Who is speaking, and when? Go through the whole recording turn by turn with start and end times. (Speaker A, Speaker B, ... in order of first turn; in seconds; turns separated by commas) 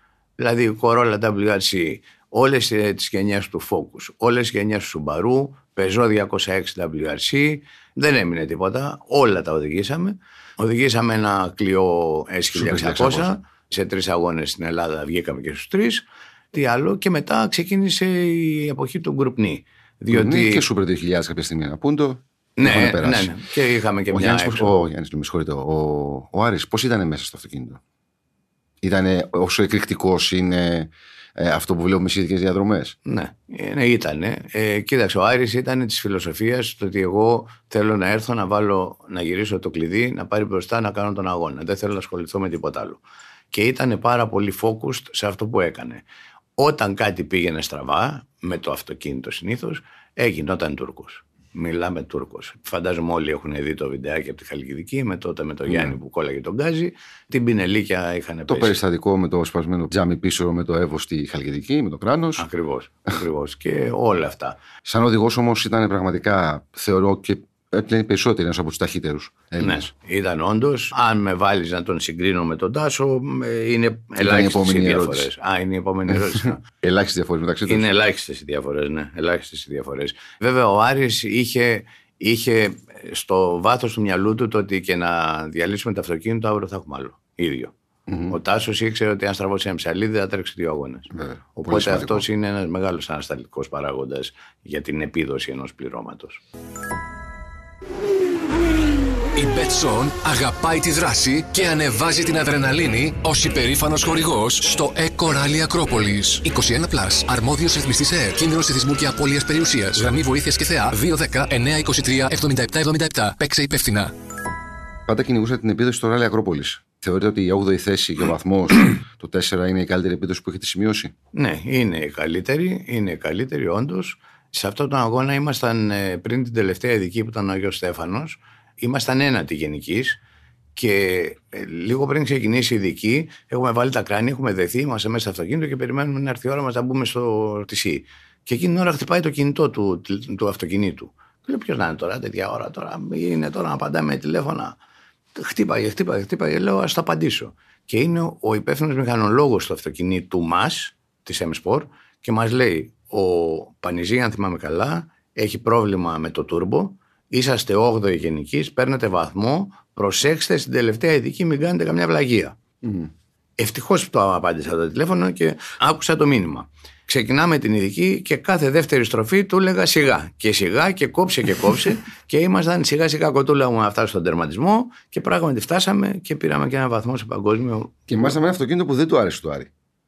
Speaker A: 0.4-20.6, Speaker B: 12.5-13.3, Speaker B: 20.1-23.4, Speaker A: 22.6-24.8, Speaker B: 24.1-27.8, Speaker B: 28.8-32.9, Speaker A: 33.0-46.0, Speaker A: 46.6-58.8, Speaker B: 55.7-55.9, Speaker B: 58.5-62.5, Speaker A: 62.4-64.6, Speaker B: 64.8-69.9, Speaker A: 69.6-76.6, Speaker B: 74.2-75.3, Speaker B: 76.7-77.9, Speaker A: 77.7-87.7, Speaker B: 88.1-88.3, Speaker A: 88.3-96.4, Speaker B: 91.1-92.2, Speaker C: 99.3-114.1, Speaker B: 115.1-121.1, Speaker A: 121.3-130.2, Speaker A: 130.8-144.8, Speaker A: 145.3-162.6, Speaker B: 162.8-163.1, Speaker A: 163.6-177.9, Speaker B: 178.1-179.7